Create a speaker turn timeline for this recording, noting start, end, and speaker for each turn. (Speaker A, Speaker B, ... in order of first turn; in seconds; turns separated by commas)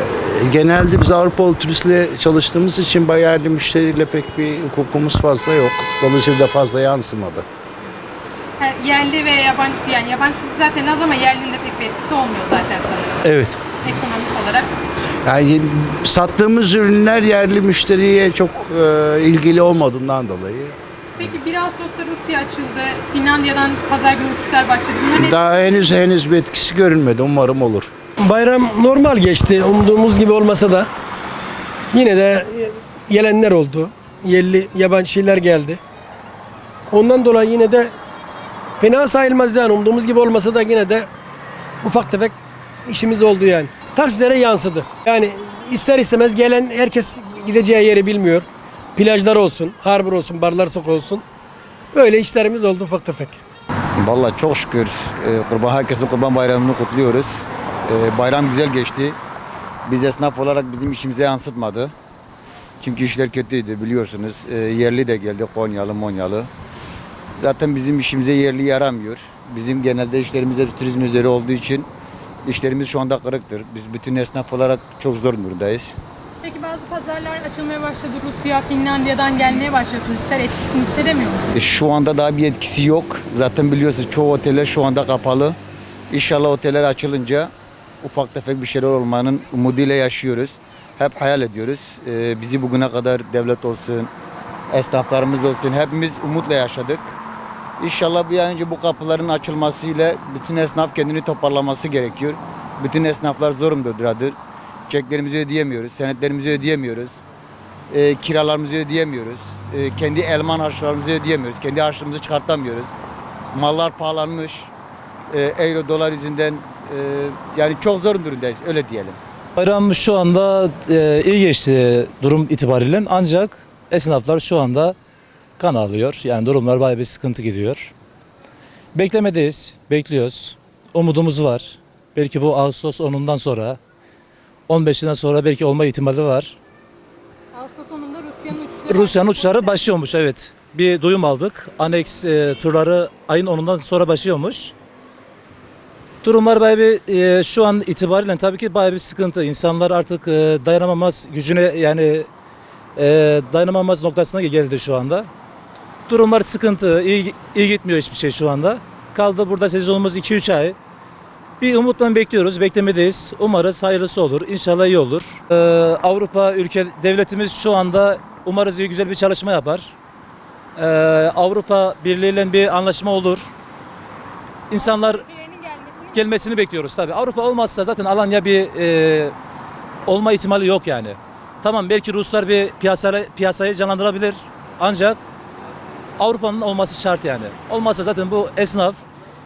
Speaker A: 0.2-7.5, Speaker B: 8.6-13.2, Speaker A: 13.2-13.6, Speaker B: 13.8-14.7, Speaker A: 15.2-21.4, Speaker B: 21.2-25.9, Speaker A: 25.1-27.9, Speaker C: 28.2-30.9, Speaker C: 31.9-35.8, Speaker C: 36.9-37.9, Speaker C: 38.8-41.1, Speaker C: 41.8-51.2, Speaker C: 51.9-53.4, Speaker D: 54.0-57.3, Speaker D: 57.9-59.2, Speaker D: 59.9-61.9, Speaker D: 62.8-66.5, Speaker D: 67.4-71.9, Speaker D: 72.5-75.9, Speaker B: 76.4-81.4, Speaker D: 81.5-85.6, Speaker D: 86.1-87.5, Speaker D: 88.0-94.1, Speaker D: 94.7-97.1, Speaker D: 97.8-104.3, Speaker D: 104.9-107.2, Speaker D: 107.9-112.9, Speaker D: 113.5-114.7, Speaker D: 115.3-119.2, Speaker E: 119.6-125.0, Speaker E: 125.6-127.9, Speaker E: 128.9-133.8, Speaker E: 134.7-136.6, Speaker B: 137.5-139.8, Speaker E: 138.9-144.7, Speaker E: 146.2-152.3, Speaker E: 153.0-155.3, Speaker E: 156.1-160.8, Speaker E: 161.6-169.9, Speaker E: 170.8-173.5, Speaker E: 174.7-175.2, Speaker B: 174.7-176.4, Speaker E: 176.1-179.3, Speaker E: 180.1-185.2, Speaker E: 186.2-189.0